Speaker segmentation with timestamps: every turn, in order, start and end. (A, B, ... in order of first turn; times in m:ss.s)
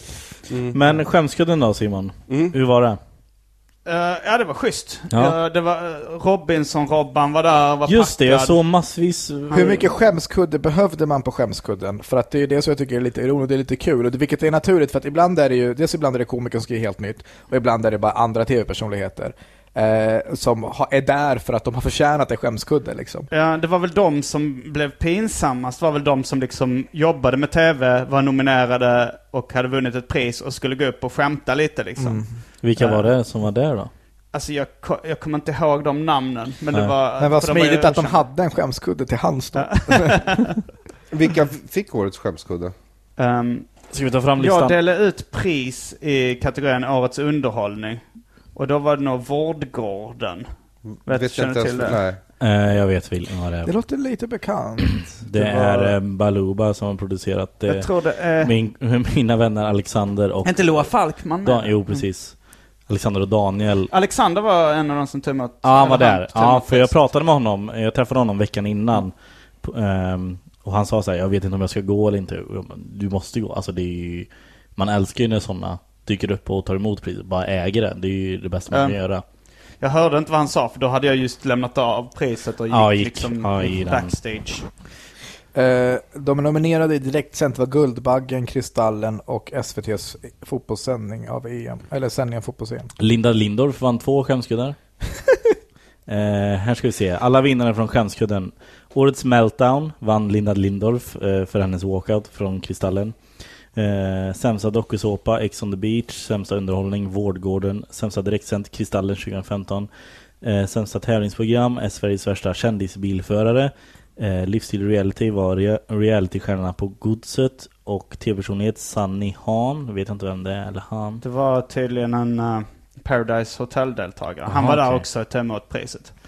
0:00.5-0:00.8 A
0:00.7-0:03.0 B
0:03.8-0:08.6 C
0:05.1-0:05.4 B
0:07.9-0:09.8 B
0:09.5-0:23.3 D
0:23.3-0:33.1 C
0:32.0-0:32.3 D
0:32.6-0:33.9 B
0:34.3-0:38.2 C
0:37.2-0:40.4 D
0:39.6-0:40.6 C
0:41.1-0:42.7 A
0:43.2-0:43.7 C
0:43.9-0:44.8 B
0:44.4-0:50.5 C
0:50.9-0:52.2 A
0:51.0-0:52.0 C
0:52.4-0:53.7 B
0:53.6-0:55.8 D
0:54.9-1:02.4 B
0:57.6-0:58.5 C
1:00.4-1:02.0 C
1:02.9-1:03.9 B
1:03.9-1:06.9 C
1:05.6-1:19.2 B
1:18.7-1:19.0 C
1:19.8-1:24.6 C
1:22.7-1:24.1 B
1:25.5-1:32.9 D
1:33.0-1:34.8 B
1:36.1-1:43.2 B
1:43.8-1:49.9 B
1:50.4-2:01.2 B
2:01.2-2:06.1 C
2:04.4-2:05.0 B